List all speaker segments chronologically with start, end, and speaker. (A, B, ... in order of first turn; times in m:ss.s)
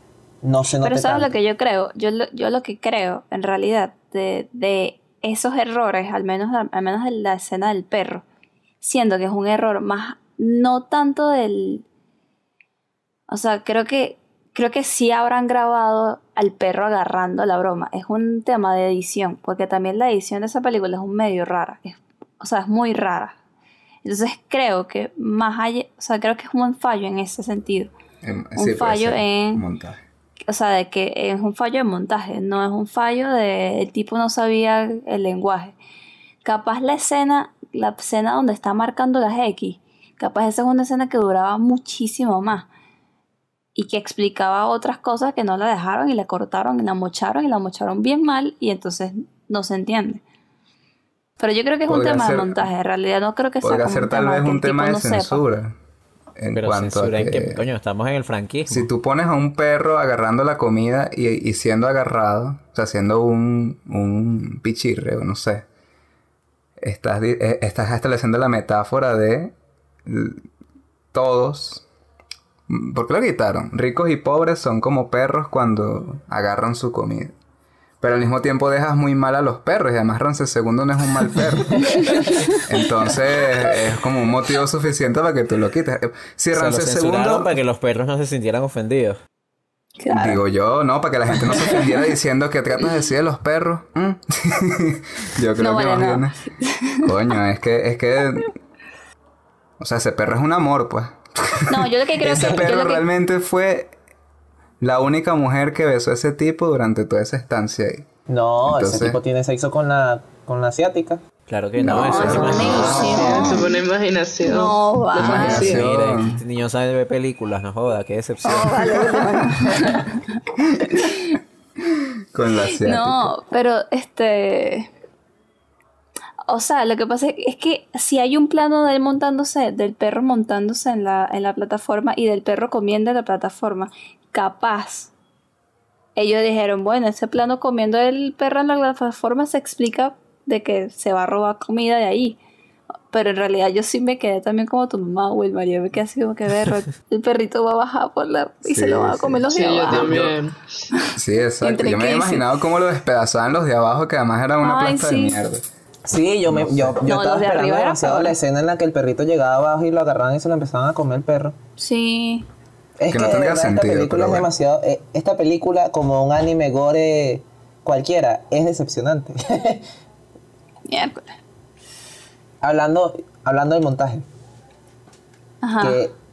0:00.4-0:01.3 A
0:00.7-0:08.2 B
0:08.8-0:11.8 B
0:13.3-0:23.4 B
0:24.0-0:27.9 B
0:28.2-0:30.0 C
0:28.6-0:29.6 B
0:30.5-0:35.8 B
0:36.4-0:42.7 B
0:43.7-0:50.2 B
0:51.4-0:55.4 B
0:51.9-0:52.7 C
0:53.6-0:55.7 C
0:56.4-0:57.6 C
0:56.5-0:58.9 D
0:58.7-1:05.7 C
1:06.8-1:09.5 C
1:10.0-1:10.4 C
1:11.1-1:11.8 C
1:12.7-1:17.3 C
1:18.0-1:27.5 C
1:21.9-1:22.6 B
1:26.5-1:29.2 D
1:30.0-1:30.4 B
1:30.1-1:36.4 C
1:35.6-1:37.1 B
1:37.0-1:38.5 C
1:39.8-1:43.9 C
1:41.7-1:43.0 B
1:44.8-1:48.1 C
1:48.3-1:51.2 A
1:48.6-1:49.2 C
1:51.5-1:53.3 D
1:51.8-1:53.7 B
1:51.8-1:53.6 C
1:52.9-1:55.9 E
1:54.4-1:55.8 B
1:55.2-1:59.1 D
1:55.2-1:56.4 C
1:58.4-2:01.4 B
1:59.0-1:59.9 C
2:00.7-2:01.2 C
2:02.3-2:03.3 C
2:02.8-2:04.9 B
2:06.5-2:15.1 B
2:16.1-2:22.4 B
2:23.1-2:30.2 B
2:28.6-2:30.3 C
2:29.5-2:30.7 E
2:30.9-2:32.5 B
2:31.2-2:35.6 C
2:34.6-2:35.4 B
2:36.0-2:41.6 A
2:36.5-2:37.0 C
2:37.0-2:38.4 B
2:41.8-2:42.4 B
2:43.0-2:49.9 A
2:43.1-2:44.5 C
2:50.9-2:51.3 B
2:52.6-2:54.2 A
2:55.6-2:56.0 B
2:55.8-2:56.1 A